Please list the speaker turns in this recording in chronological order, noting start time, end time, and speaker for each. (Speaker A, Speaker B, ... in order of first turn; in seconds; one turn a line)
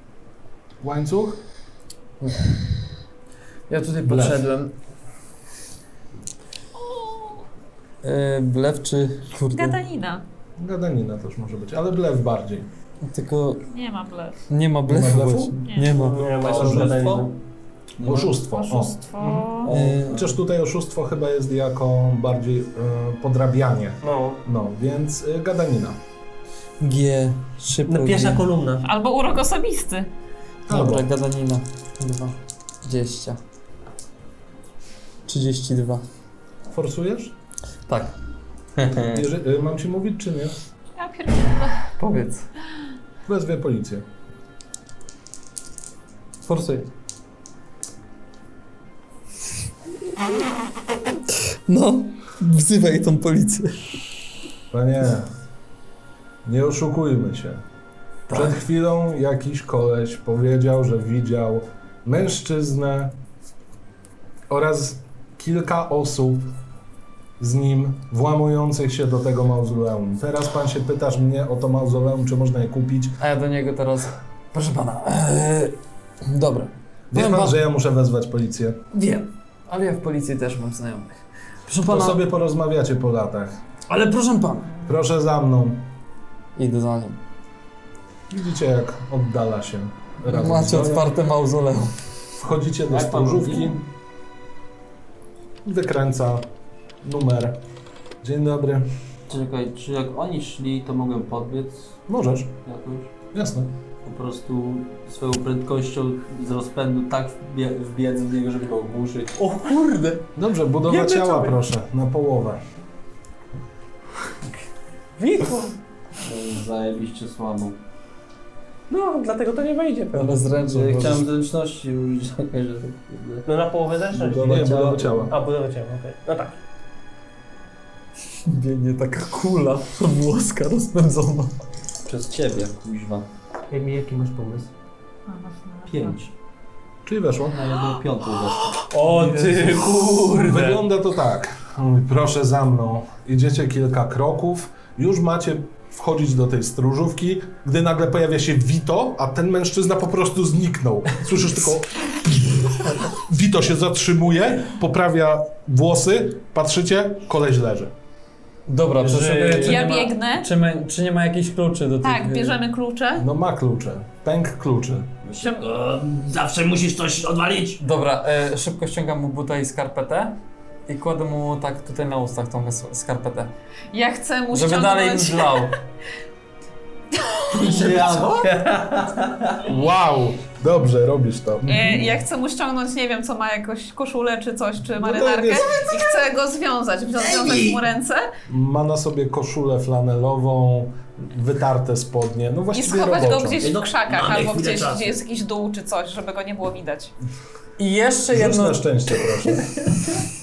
Speaker A: 0.8-1.4
Speaker B: 2.2-2.6
Speaker B: 3.7-4.7
Speaker A: 4.0-4.5
Speaker C: 6.8-7.4
Speaker B: 8.0-9.8
Speaker C: 9.5-10.2
Speaker A: 10.6-12.7
Speaker B: 13.0-13.6
Speaker C: 13.7-14.4
Speaker B: 14.5-17.2
Speaker A: 14.9-15.6
Speaker C: 15.7-16.0
Speaker D: 15.9-17.3
Speaker E: 16.4-17.2
Speaker A: 16.4-17.1
Speaker A: 18.0-26.0
Speaker C: 18.5-19.7
Speaker E: 19.6-20.3
Speaker B: 19.6-20.2
Speaker D: 24.0-24.4
Speaker B: 26.8-28.5
Speaker D: 27.9-28.9
Speaker C: 28.8-30.1
Speaker A: 30.7-31.1
Speaker B: 30.7-33.4
Speaker B: 35.3-36.0
Speaker A: 36.7-37.3
Speaker B: 37.9-38.1
Speaker B: 38.8-39.2
Speaker A: 38.9-40.6
Speaker C: 41.0-41.9
Speaker B: 42.0-42.5
Speaker A: 43.2-44.0
Speaker B: 46.5-46.9
Speaker B: 51.6-53.8
Speaker A: 54.7-55.3
Speaker A: 56.4-57.6
Speaker B: 58.3-58.6
Speaker A: 58.3-63.1
Speaker A: 64.5-66.5
Speaker A: 67.4-73.2
Speaker B: 73.2-77.6
Speaker A: 77.1-78.8
Speaker B: 78.9-82.2
Speaker A: 81.8-83.6
Speaker B: 83.9-84.7
Speaker A: 84.8-85.9
Speaker B: 86.5-87.2
Speaker A: 88.3-91.1
Speaker B: 90.2-91.9
Speaker A: 92.4-93.8
Speaker E: 92.9-93.8
Speaker A: 95.6-96.5
Speaker A: 97.0-97.6
Speaker A: 98.2-98.9
Speaker E: 99.3-102.0
Speaker A: 102.1-102.5
Speaker E: 102.6-103.1
Speaker A: 103.3-103.7
Speaker E: 104.0-109.4
Speaker D: 109.4-110.2
Speaker A: 110.3-112.6
Speaker D: 110.9-111.6
Speaker D: 115.2-115.8
Speaker E: 116.2-117.8
Speaker D: 118.9-120.4
Speaker B: 120.1-121.3
Speaker E: 120.6-123.5
Speaker D: 123.5-124.7
Speaker E: 124.1-125.3
Speaker A: 124.3-125.3
Speaker D: 125.3-126.6
Speaker B: 128.4-131.5
Speaker E: 132.0-133.3
Speaker D: 133.7-134.7
Speaker C: 135.3-136.2
Speaker E: 135.9-136.3
Speaker A: 137.0-137.6
Speaker E: 137.5-138.8
Speaker D: 138.8-140.8
Speaker A: 139.9-157.9
Speaker B: 158.7-162.6
Speaker E: 159.0-159.7
Speaker D: 159.2-159.7
Speaker C: 159.6-160.5
Speaker C: 162.0-163.2
Speaker A: 163.1-165.1
Speaker E: 165.2-167.8
Speaker C: 165.4-165.7
Speaker B: 167.8-173.5
Speaker C: 173.9-175.7
Speaker B: 174.5-175.8
Speaker C: 177.2-178.2
Speaker E: 177.5-179.7
Speaker A: 179.6-182.2
Speaker C: 181.7-188.3
Speaker A: 185.0-186.0
Speaker E: 187.2-187.8
Speaker A: 188.5-193.7
Speaker C: 192.7-197.1
Speaker E: 193.6-195.2
Speaker B: 197.8-198.8
Speaker A: 198.3-199.9
Speaker E: 199.8-200.2